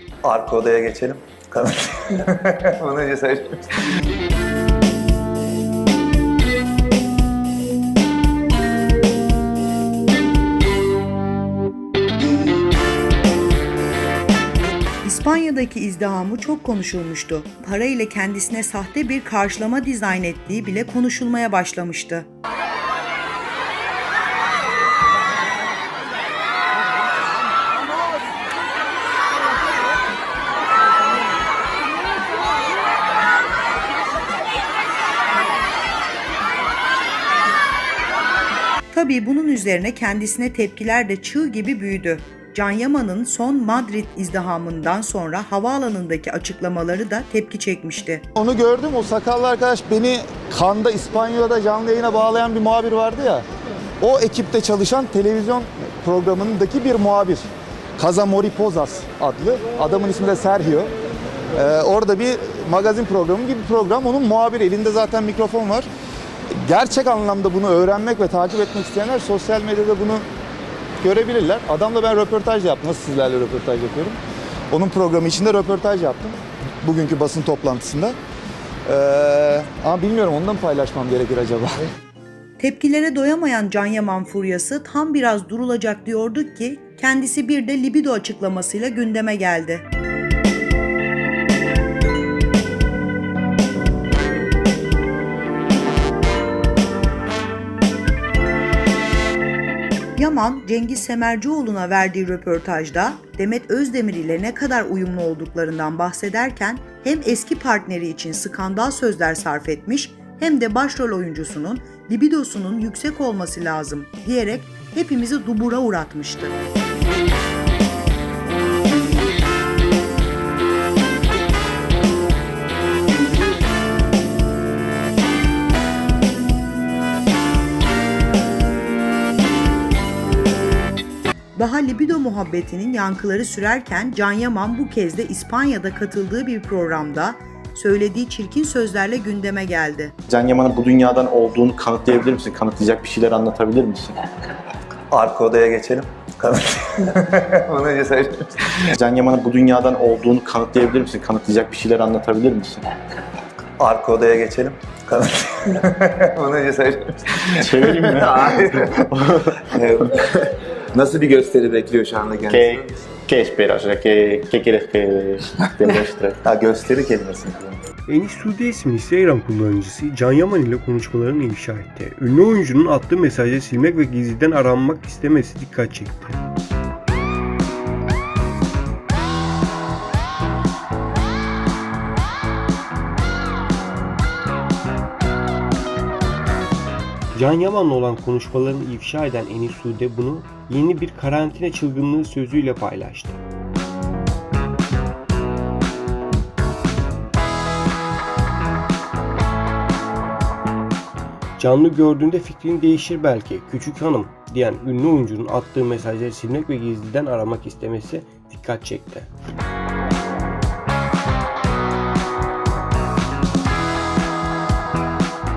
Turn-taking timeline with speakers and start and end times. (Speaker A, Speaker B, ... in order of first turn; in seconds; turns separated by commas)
Speaker A: 0.2-3.7, Speaker B: 15.0-22.3, Speaker B: 38.9-48.2, Speaker C: 48.4-53.5, Speaker C: 54.0-60.9, Speaker C: 61.5-65.9, Speaker C: 66.5-70.2, Speaker C: 71.0-74.2, Speaker C: 74.7-78.2, Speaker C: 78.9-81.9, Speaker B: 82.6-89.8, Speaker B: 100.2-116.5, Speaker B: 131.6-140.2, Speaker D: 140.3-144.3, Speaker A: 145.1-148.9, Speaker D: 149.0-152.9, Speaker A: 153.8-158.9, Speaker D: 157.6-159.7, Speaker A: 159.7-162.9, Speaker D: 162.5-166.4, Speaker A: 166.4-167.8, Speaker E: 168.1-176.4, Speaker E: 187.3-193.4, Speaker E: 201.6-209.3